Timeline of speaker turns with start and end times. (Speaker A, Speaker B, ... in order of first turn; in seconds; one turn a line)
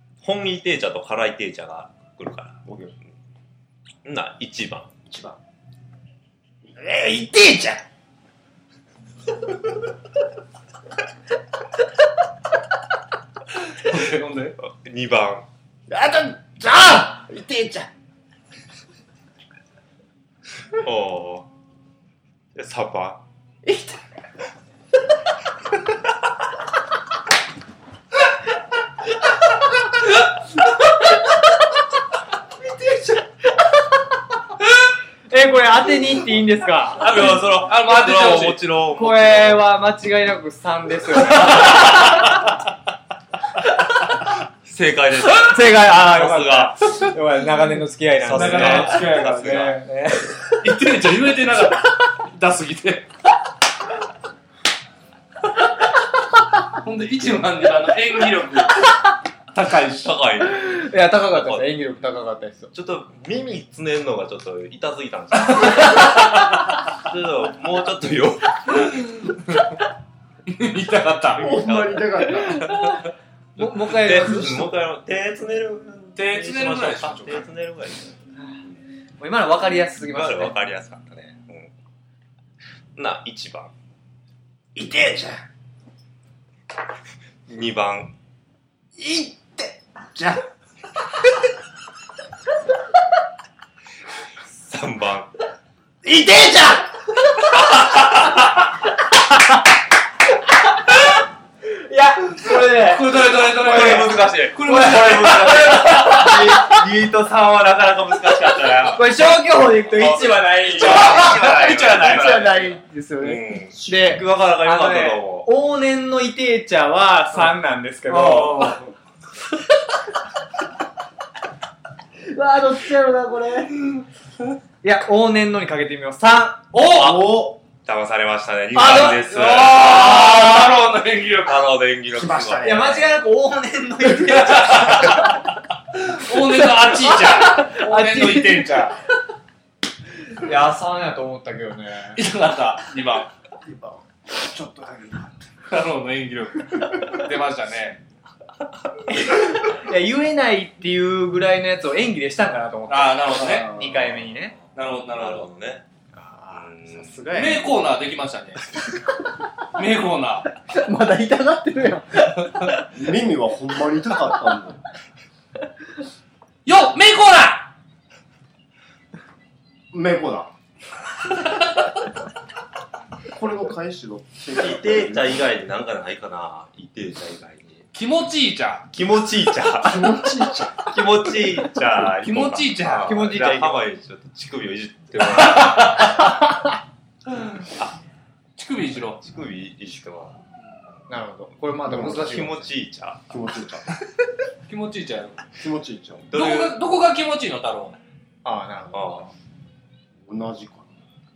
Speaker A: 0.2-2.6
Speaker B: 2.7-2.9
Speaker A: 4.0-4.9
Speaker B: 5.1-5.4
Speaker B: 6.7-7.8
Speaker C: 13.7-14.6
Speaker A: 14.6-15.5
Speaker B: 15.9-17.9
Speaker A: 20.7-21.5
Speaker A: 22.6-23.2
Speaker B: 23.7-24.0
Speaker B: 32.7-33.2
Speaker D: 35.3-37.2
Speaker C: 37.0-38.6
Speaker A: 37.0-39.6
Speaker D: 38.9-42.4
Speaker A: 41.4-42.0
Speaker C: 41.5-42.0
Speaker A: 44.6-47.0
Speaker D: 45.4-50.6
Speaker A: 48.2-49.8
Speaker C: 48.3-49.8
Speaker C: 50.5-53.1
Speaker C: 56.7-59.0
Speaker C: 59.5-60.1
Speaker A: 60.0-61.7
Speaker D: 60.4-62.7
Speaker A: 62.7-66.4
Speaker C: 65.5-66.2
Speaker A: 66.9-69.0
Speaker C: 68.9-69.7
Speaker C: 70.5-71.5
Speaker A: 71.3-72.4
Speaker B: 71.4-72.8
Speaker D: 72.3-73.1
Speaker D: 73.6-74.7
Speaker A: 73.6-78.2
Speaker C: 76.2-77.5
Speaker D: 79.2-80.6
Speaker A: 80.1-81.7
Speaker A: 83.0-83.7
Speaker B: 84.8-85.4
Speaker A: 87.5-88.1
Speaker B: 89.0-90.4
Speaker A: 94.5-95.3
Speaker B: 96.0-96.9
Speaker D: 101.7-106.7
Speaker C: 102.8-106.3
Speaker A: 103.4-109.3
Speaker D: 108.9-118.8
Speaker A: 109.9-112.4
Speaker C: 110.7-112.8
Speaker A: 113.2-115.5
Speaker B: 118.3-118.8
Speaker D: 122.2-124.0
Speaker D: 124.8-126.7
Speaker C: 126.7-127.2
Speaker A: 126.8-130.5
Speaker B: 126.8-127.6
Speaker C: 128.7-131.6
Speaker D: 128.9-129.2
Speaker A: 131.4-133.1
Speaker B: 132.1-133.1
Speaker D: 132.6-135.4
Speaker C: 134.1-135.4
Speaker C: 136.1-138.9
Speaker D: 136.7-138.9
Speaker D: 140.3-142.2
Speaker C: 142.2-143.3
Speaker B: 143.6-145.5
Speaker C: 145.7-148.0
Speaker D: 149.1-154.6
Speaker C: 152.9-153.7
Speaker B: 153.5-154.0
Speaker C: 154.8-155.5
Speaker A: 155.1-155.8
Speaker D: 156.1-157.7
Speaker A: 156.5-157.3
Speaker C: 157.3-158.7
Speaker C: 159.7-160.5
Speaker D: 160.7-162.9
Speaker B: 162.9-164.8
Speaker C: 166.7-167.7
Speaker B: 169.9-170.5
Speaker B: 173.3-175.4
Speaker A: 174.6-177.9
Speaker C: 177.9-178.9
Speaker A: 178.9-180.3
Speaker B: 179.8-180.9
Speaker A: 180.8-186.1
Speaker C: 182.2-183.3
Speaker D: 183.0-183.8
Speaker C: 185.2-186.3
Speaker C: 188.6-189.2
Speaker A: 189.2-190.4
Speaker D: 191.1-192.7
Speaker B: 191.8-192.4
Speaker A: 191.9-193.3
Speaker B: 193.3-193.9
Speaker C: 194.7-195.4
Speaker B: 195.6-196.2
Speaker A: 196.3-196.8
Speaker C: 196.3-198.0
Speaker D: 198.4-199.3
Speaker A: 198.9-199.3
Speaker B: 200.3-200.9